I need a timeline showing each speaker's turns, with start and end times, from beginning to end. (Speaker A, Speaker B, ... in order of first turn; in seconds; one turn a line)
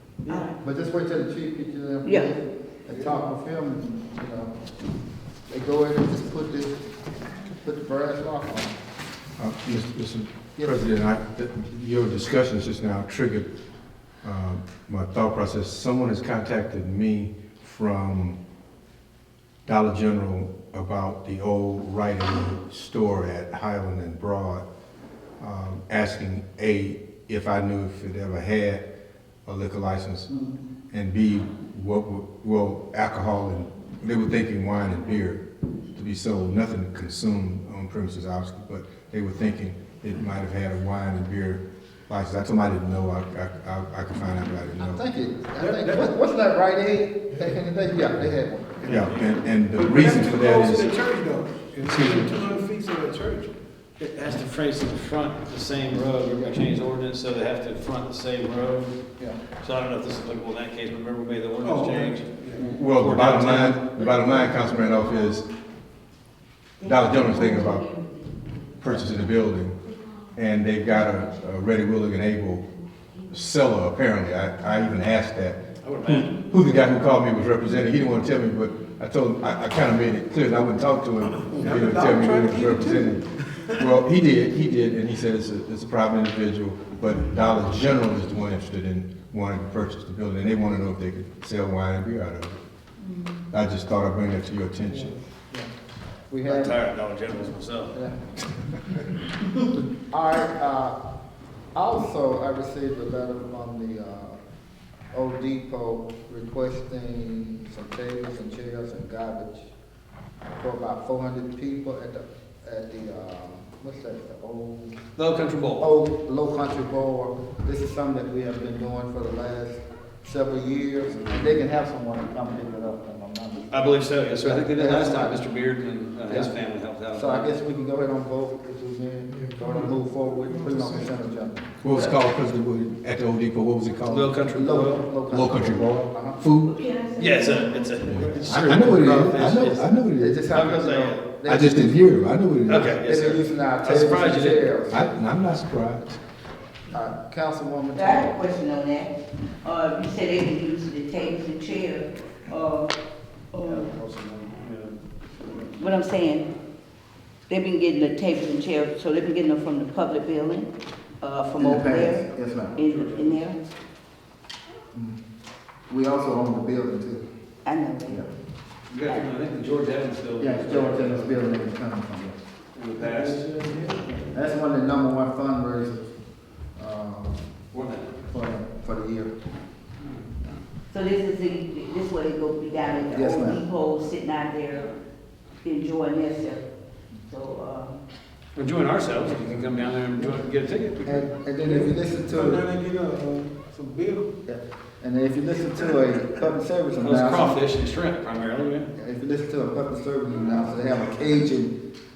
Speaker A: 0.2-4.6
Speaker B: 0.3-0.6
Speaker B: 2.0-2.3
Speaker A: 5.5-6.8
Speaker A: 7.6-8.8
Speaker C: 9.4-13.5
Speaker A: 10.6-10.9
Speaker C: 14.2-18.4
Speaker C: 19.6-24.6
Speaker C: 25.4-28.8
Speaker C: 29.4-30.3
Speaker C: 30.9-35.4
Speaker C: 35.9-45.0
Speaker A: 44.9-49.4
Speaker D: 45.6-46.1
Speaker C: 48.8-50.9
Speaker E: 48.9-49.3
Speaker D: 49.7-53.5
Speaker C: 51.9-52.3
Speaker E: 54.0-59.0
Speaker A: 56.0-56.5
Speaker E: 59.6-64.2
Speaker D: 61.6-62.7
Speaker C: 62.7-65.4
Speaker B: 64.5-65.3
Speaker B: 66.8-69.1
Speaker C: 66.8-67.8
Speaker C: 68.8-69.8
Speaker C: 70.3-72.7
Speaker C: 73.3-83.2
Speaker E: 75.8-76.4
Speaker E: 81.4-81.7
Speaker D: 81.6-83.9
Speaker C: 83.8-92.6
Speaker B: 93.0-93.4
Speaker C: 93.5-95.1
Speaker D: 94.9-95.2
Speaker A: 95.4-95.7
Speaker A: 96.3-96.8
Speaker E: 96.5-98.0
Speaker A: 97.4-98.2
Speaker A: 99.8-101.0
Speaker A: 101.7-104.4
Speaker A: 105.1-109.7
Speaker A: 110.5-115.0
Speaker E: 115.2-115.9
Speaker A: 115.8-125.4
Speaker E: 121.1-121.6
Speaker E: 123.7-127.5
Speaker A: 127.1-131.7
Speaker D: 129.3-131.1
Speaker C: 131.8-134.4
Speaker E: 134.1-135.2
Speaker A: 134.4-136.4
Speaker C: 135.3-136.7
Speaker B: 136.6-138.0
Speaker E: 137.2-139.9
Speaker C: 138.1-140.5
Speaker A: 140.2-142.1
Speaker E: 140.5-141.2
Speaker C: 141.4-142.9
Speaker E: 142.7-144.7
Speaker A: 142.9-145.1
Speaker C: 144.9-146.2
Speaker A: 146.9-148.4
Speaker B: 147.9-152.9
Speaker B: 153.5-153.9
Speaker E: 153.6-155.8
Speaker B: 155.8-156.5
Speaker B: 157.5-163.6
Speaker A: 161.6-162.8
Speaker E: 162.8-163.4
Speaker A: 165.9-167.2
Speaker B: 167.6-168.2
Speaker E: 168.9-171.4
Speaker A: 170.4-172.4
Speaker E: 172.7-173.4
Speaker D: 173.0-174.4
Speaker A: 174.3-176.1
Speaker A: 176.8-177.6
Speaker E: 177.7-178.2
Speaker A: 178.3-179.3
Speaker B: 180.9-184.9
Speaker A: 183.1-183.6
Speaker B: 185.6-186.6
Speaker B: 187.3-188.0
Speaker E: 188.6-191.2
Speaker A: 189.3-190.4
Speaker A: 191.0-192.7
Speaker D: 191.6-194.3
Speaker A: 194.4-197.6
Speaker E: 197.0-198.9
Speaker A: 198.9-201.7